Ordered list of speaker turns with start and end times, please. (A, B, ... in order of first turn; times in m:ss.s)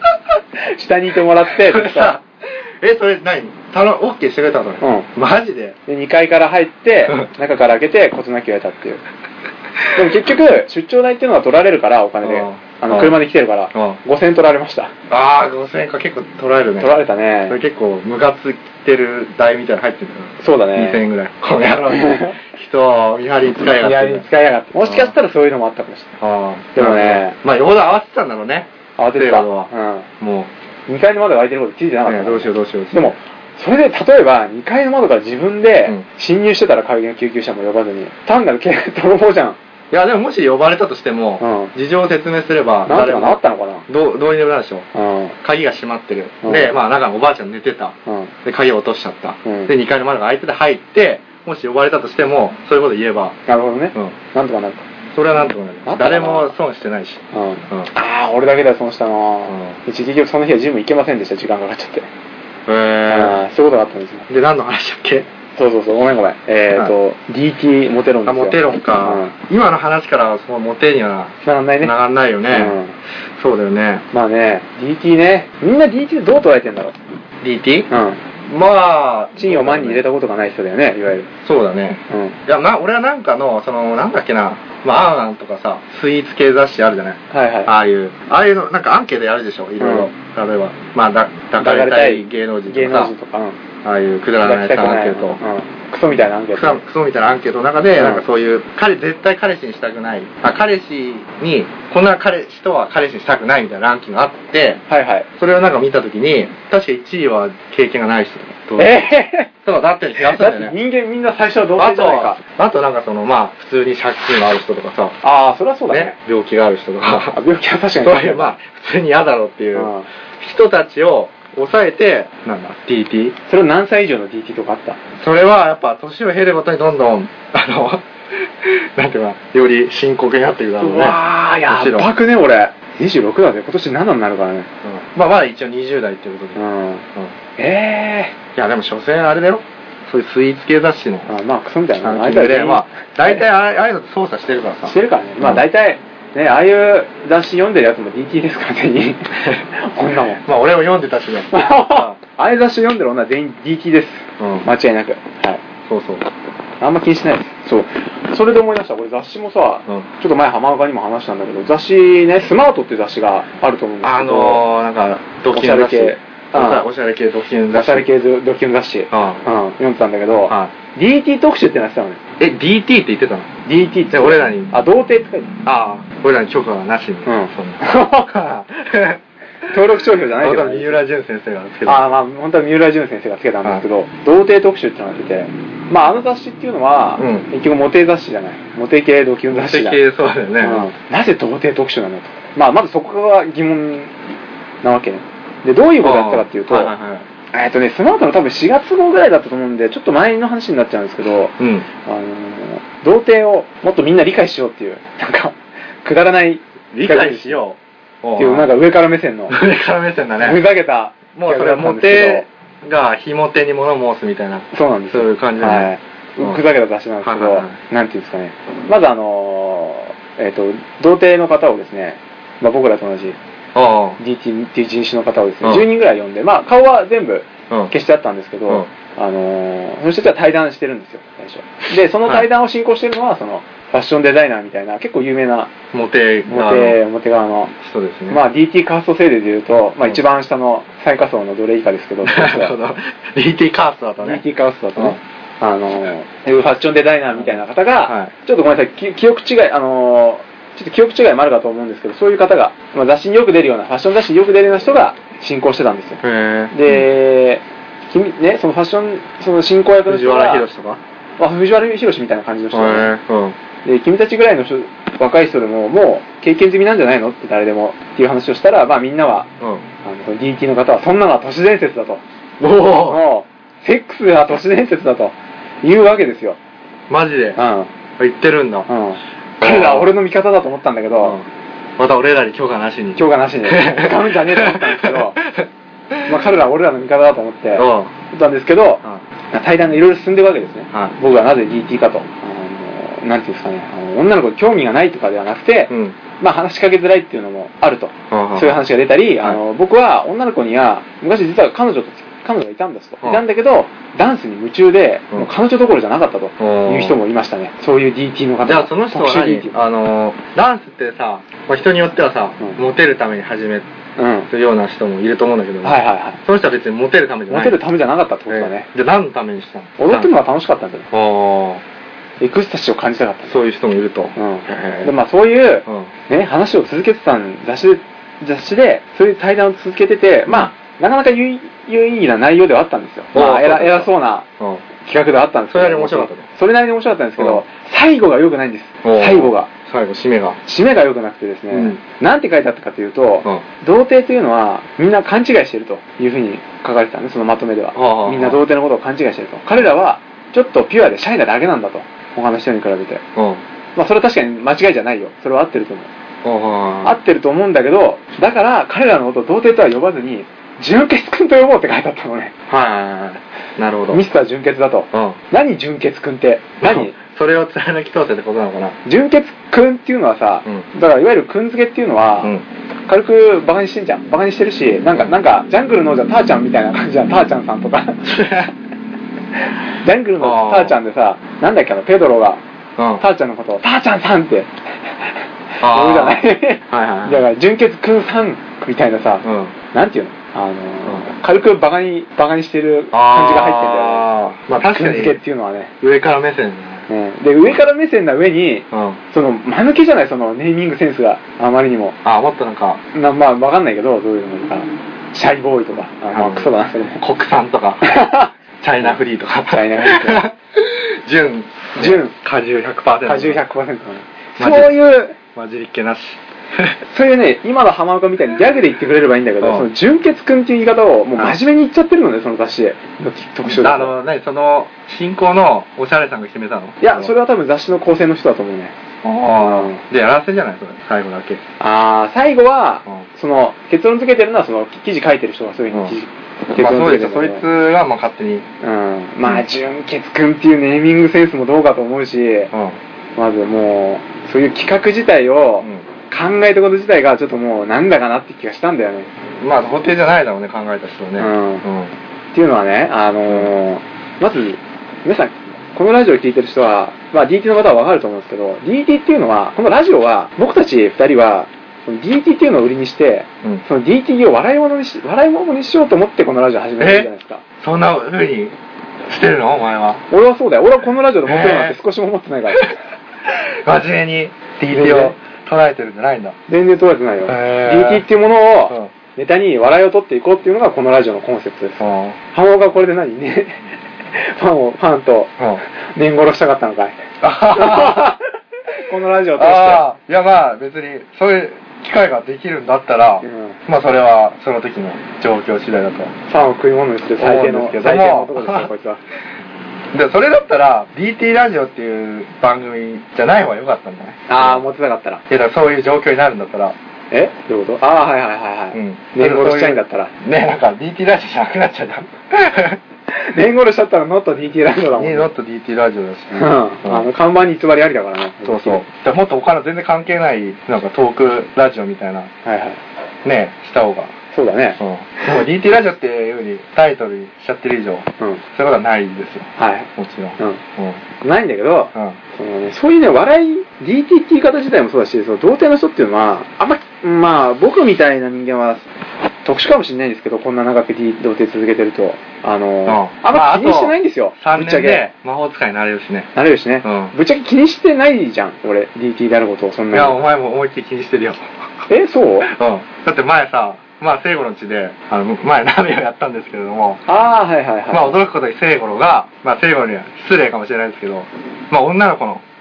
0:00.6-0:02.2 A
0:01.5-0:05.8 B
0:04.8-0:05.1 A
0:05.9-0:09.0 A
0:10.0-0:14.9 A
0:12.2-0:13.2 B
0:13.7-0:14.0 B
0:15.1-0:24.3 B
0:16.8-0:17.6 A
0:20.4-0:21.1 A
0:21.9-0:22.4 A
0:23.8-0:26.2 A
0:24.8-0:25.1 B
0:26.2-0:30.5 B
0:26.8-0:27.4 A
0:29.0-0:30.1 A
0:30.9-0:39.6 A
0:32.0-0:33.2 B
0:39.9-0:44.9 B
0:41.4-0:41.7 A
0:42.9-0:43.9 A
0:44.9-0:45.4 A
0:45.4-0:53.4 B
0:46.4-0:46.8 A
0:48.1-0:48.3 A
0:49.4-0:49.7 A
0:53.5-0:54.8 A
0:55.1-0:57.9 B
0:55.9-0:56.5 A
0:57.3-1:02.1 A
0:59.5-0:59.8 B
1:02.7-1:03.4 B
1:03.1-1:04.3 A
1:04.3-1:05.3 B
1:05.6-1:09.4 A
1:08.2-1:12.8 B
1:11.4-1:11.9 A
1:12.5-1:13.0 A
1:13.4-1:14.0 B
1:14.1-1:17.0 A
1:17.4-1:17.9 B
1:17.9-1:18.2 A
1:18.4-1:20.0 B
1:19.4-1:21.3 A
1:21.4-1:33.1 B
1:22.1-1:22.4 A
1:27.3-1:27.7 A
1:29.8-1:30.1 A
1:31.6-1:33.6 A
1:33.8-1:35.4 B
1:34.4-1:36.8 A
1:36.5-1:44.8 B
1:38.0-1:38.2 A
1:44.9-1:45.3 A
1:45.4-1:49.0 B
1:48.8-1:49.5 A
1:49.6-1:50.8 B
1:50.3-1:52.4 A
1:51.8-1:55.2 B
1:55.2-1:56.2 A
1:55.9-1:57.4 B
1:57.3-1:58.6 A
1:58.0-2:03.4 B
1:59.8-2:00.1 A
2:03.5-2:05.0 A
2:05.2-2:12.1 B
2:10.8-2:14.7 A
2:14.8-2:16.6 B
2:16.6-2:17.0 A
2:17.6-2:18.4 A
2:18.6-2:21.3 B
2:21.3-2:23.4 A
2:22.0-2:25.6 B
2:24.9-2:30.4 A
2:30.4-2:32.2 B
2:31.5-2:35.6 A
2:34.4-2:34.7 B
2:35.9-2:36.3 B
2:36.8-2:44.6 A
2:44.0-2:48.1 B
2:45.5-2:46.9 A
2:47.7-2:52.2 A
2:49.1-2:49.4 B
2:50.5-2:50.7 B
2:52.4-2:53.5 B
2:53.7-2:55.5 A
2:54.1-2:54.7 B
2:55.6-2:59.2 B
2:57.3-2:58.3 A
2:59.7-3:01.0 A
3:00.4-3:02.1 B
3:01.9-3:10.0 A
3:07.2-3:07.5 B
3:09.5-3:10.9 B
3:10.6-3:14.1 A
3:14.8-3:16.9 A
3:16.0-3:17.3 B
3:17.5-3:21.5 A
3:21.6-3:21.9 B
3:22.0-3:27.6 A
3:26.9-3:28.7 B
3:28.4-3:29.6 A
3:29.5-3:30.6 B
3:30.4-3:32.5 A
3:31.4-3:35.9 B
3:34.7-3:43.4 A
3:37.2-3:37.8 B
3:43.8-3:44.2 B
3:44.2-3:55.7 A
3:55.9-3:57.0 B
3:56.5-3:57.7 A
3:57.8-3:58.4 B
3:58.3-4:02.8 A
4:02.2-4:04.4 B
4:04.2-4:16.2 A
4:07.4-4:08.3 B
4:16.2-4:17.1 B
4:16.7-4:20.6 A
4:20.1-4:21.0 B
4:21.4-4:23.1 A
4:22.7-4:23.6 B
4:23.8-4:29.5 A
4:29.6-4:29.8 B
4:30.0-4:32.2 A
4:32.6-4:33.2 B
4:33.0-4:36.6 A
4:37.1-4:37.6 B
4:37.6-4:37.9 A
4:38.2-4:38.9 B
4:38.9-4:41.4 A
4:39.6-4:40.1 B
4:42.0-4:46.3 B
4:43.2-4:45.4 A
4:46.3-5:09.8 A
4:47.8-4:48.1 B
4:55.9-4:56.2 B
4:58.3-4:58.9 B
5:06.6-5:07.2 B
5:08.6-5:13.9 B
5:14.2-5:14.5 A
5:14.5-5:17.8 B
5:15.8-5:16.4 A
5:17.5-5:18.9 A
5:18.5-5:20.3 B
5:20.0-5:21.1 A
5:21.1-5:21.8 B
5:22.4-5:23.6 A
5:23.4-5:25.1 B
5:24.4-5:34.5 A
5:33.3-5:34.8 B
5:35.0-5:39.7 A
5:35.7-5:36.5 B
5:37.4-5:37.6 B
5:39.0-5:40.6 B
5:40.6-5:53.2 A
5:41.7-5:42.0 B
5:48.0-5:48.6 B
5:53.4-5:53.6 B
5:54.0-5:56.1 A
5:56.4-5:57.2 B
5:57.0-6:03.4 A
6:03.8-6:04.2 B
6:04.1-6:07.2 A
6:05.1-6:05.4 B
6:06.8-6:09.0 B
6:09.0-6:12.5 A
6:13.1-6:18.3 A
6:18.2-6:18.7 B
6:20.0-6:22.6 A
6:20.4-6:21.0 B
6:23.0-6:23.2 B
6:23.2-6:34.3 A
6:25.8-6:27.4 B
6:29.4-6:29.7 B
6:33.1-6:35.4 B
6:34.9-6:35.9 A
6:36.0-6:37.1 B
6:37.1-6:42.2 A
6:38.9-6:39.2 B
6:42.2-6:43.0 B
6:43.1-6:47.2 A
6:46.3-6:48.1 B
6:48.0-6:48.5 A
6:48.8-6:53.6 B
6:49.7-6:50.4 A
6:52.0-6:52.4 A
6:53.2-6:55.4 A
6:54.6-6:57.0 B
6:57.0-7:04.2 A
6:59.6-6:59.9 B
7:03.7-7:07.3 B
7:07.0-7:09.0 A
7:09.2-7:11.6 B
7:09.5-7:10.0 A
7:11.8-7:17.6 A
7:16.8-7:18.7 B
7:18.8-7:22.7 A
7:22.7-7:23.0 B
7:23.4-7:29.3 A
7:29.6-7:32.1 B
7:31.4-7:31.8 A
7:32.5-7:47.6 A
7:47.0-7:50.2 B
7:50.3-7:52.9 A
7:51.4-7:52.0 B
7:52.7-7:56.6 B
7:54.8-7:55.4 A
7:56.7-8:02.0 A
7:57.5-7:58.3 B
8:02.0-8:02.4 B
8:02.5-8:10.0 A
8:05.6-8:05.8 B
8:07.4-8:08.4 B
8:09.6-8:16.3 B
8:13.4-8:13.8 A
8:16.5-8:19.2 A
8:17.4-8:18.9 B
8:20.1-8:24.8 B
8:24.5-8:25.4 A
8:25.5-8:27.0 B
8:27.3-8:30.3 A
8:28.9-8:33.0 B
8:33.3-8:35.5 A
8:35.2-8:37.3 B
8:36.5-8:39.0 A
8:38.6-8:42.5 B
8:42.6-8:43.0 A
8:43.4-8:44.3 B
8:44.5-8:45.0 A
8:45.0-8:51.2 B
8:49.8-8:50.8 A
8:51.4-8:59.1 A
8:59.6-9:05.3 A
9:03.1-9:06.5 B
9:06.6-9:10.4 A
9:07.0-9:07.3 B
9:10.1-9:11.7 B
9:12.1-9:12.7 A
9:12.6-9:17.2 B
9:17.3-9:18.4 A
9:18.1-9:22.6 B